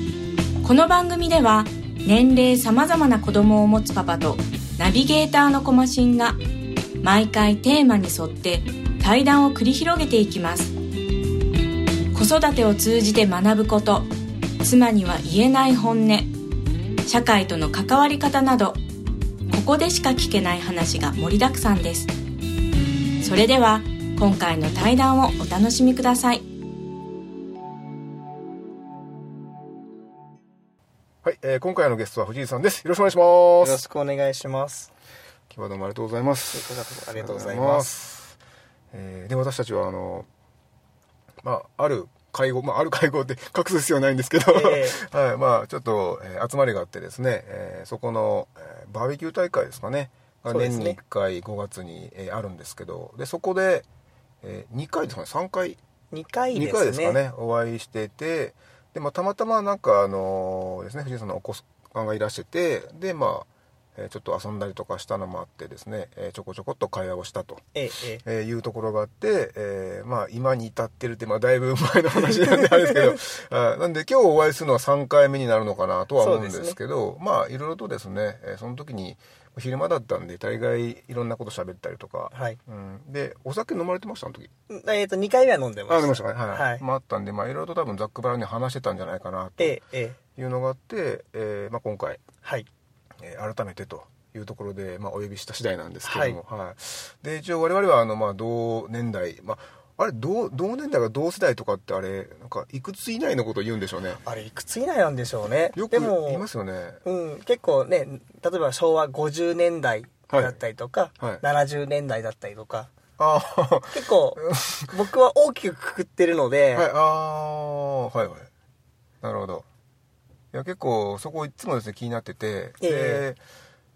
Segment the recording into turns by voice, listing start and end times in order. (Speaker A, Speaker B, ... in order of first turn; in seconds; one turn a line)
Speaker A: 0.6-6.4
Speaker A: 7.0-10.7
Speaker A: 12.1-16.3
Speaker A: 17.1-18.8
Speaker A: 19.5-22.1
Speaker A: 23.2-26.4
Speaker B: 31.2-33.8
Speaker C: 33.6-34.9
Speaker B: 35.5-38.4
Speaker C: 36.5-37.9
Speaker B: 38.9-40.3
Speaker B: 41.4-53.9
Speaker C: 44.5-45.0
Speaker C: 50.5-51.0
Speaker B: 54.4-55.8
Speaker C: 56.1-57.2
Speaker B: 56.5-67.7
Speaker C: 67.7-68.2
Speaker B: 68.2-84.5
Speaker C: 76.2-76.8
Speaker C: 82.3-82.6
Speaker C: 84.7-86.8
Speaker B: 85.9-89.8
Speaker C: 89.6-90.2
Speaker B: 90.3-92.2
Speaker B: 93.2-104.2
Speaker C: 96.0-96.4
Speaker C: 104.2-106.4
Speaker B: 105.7-107.0
Speaker C: 107.0-112.9
Speaker B: 110.3-110.6
Speaker B: 113.2-114.9
Speaker C: 113.9-116.9
Speaker B: 116.7-118.5
Speaker B: 119.2-119.6
Speaker B: 120.5-123.4
Speaker C: 122.8-123.2